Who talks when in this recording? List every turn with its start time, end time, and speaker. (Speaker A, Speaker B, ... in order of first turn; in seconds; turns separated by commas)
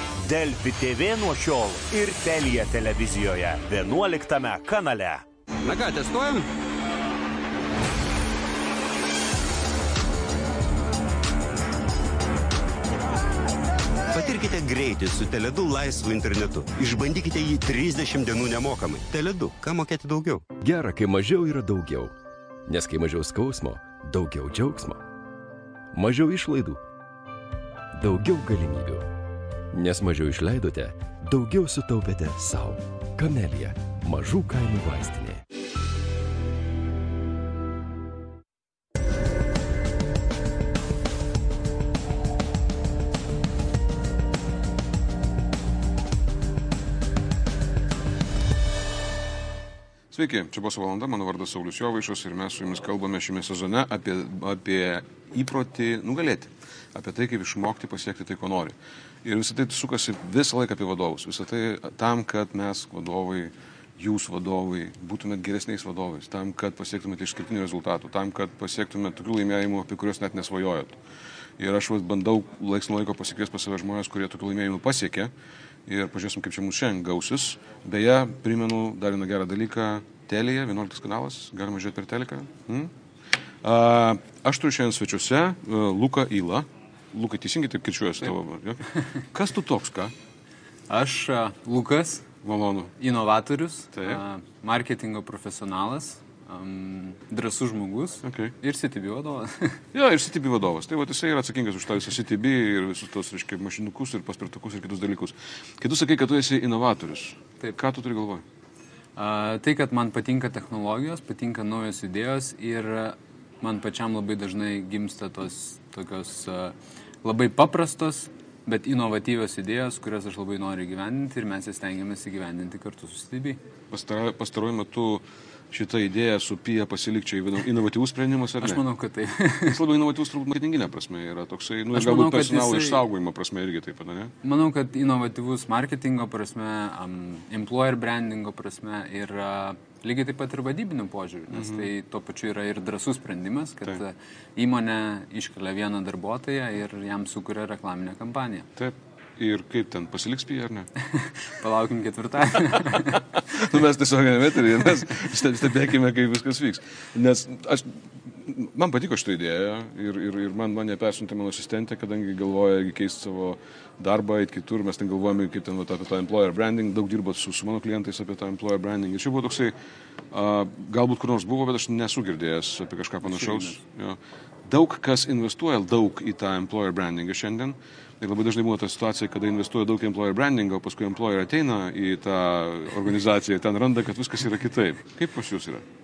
Speaker A: 0.2-5.2, Speaker B: 5.7-6.4, Speaker B: 14.1-20.5, Speaker C: 20.6-22.1, Speaker C: 22.7-25.0, Speaker C: 25.9-26.8, Speaker C: 27.9-29.1, Speaker C: 29.7-35.4, Speaker D: 50.1-71.0, Speaker D: 71.6-75.3, Speaker D: 75.8-82.9, Speaker D: 83.6-90.1, Speaker E: 90.9-92.3, Speaker D: 92.4-92.9, Speaker E: 93.0-99.8, Speaker D: 93.9-94.2, Speaker D: 98.2-98.5, Speaker D: 99.9-108.4, Speaker E: 109.2-123.6, Speaker D: 123.9-128.8, Speaker E: 128.6-129.8, Speaker D: 129.6-134.3, Speaker E: 131.9-133.0, Speaker E: 134.4-148.7, Speaker D: 141.5-141.9, Speaker D: 148.8-150.9, Speaker E: 151.1-153.3, Speaker D: 152.9-169.7, Speaker D: 170.3-185.8, Speaker E: 173.2-173.8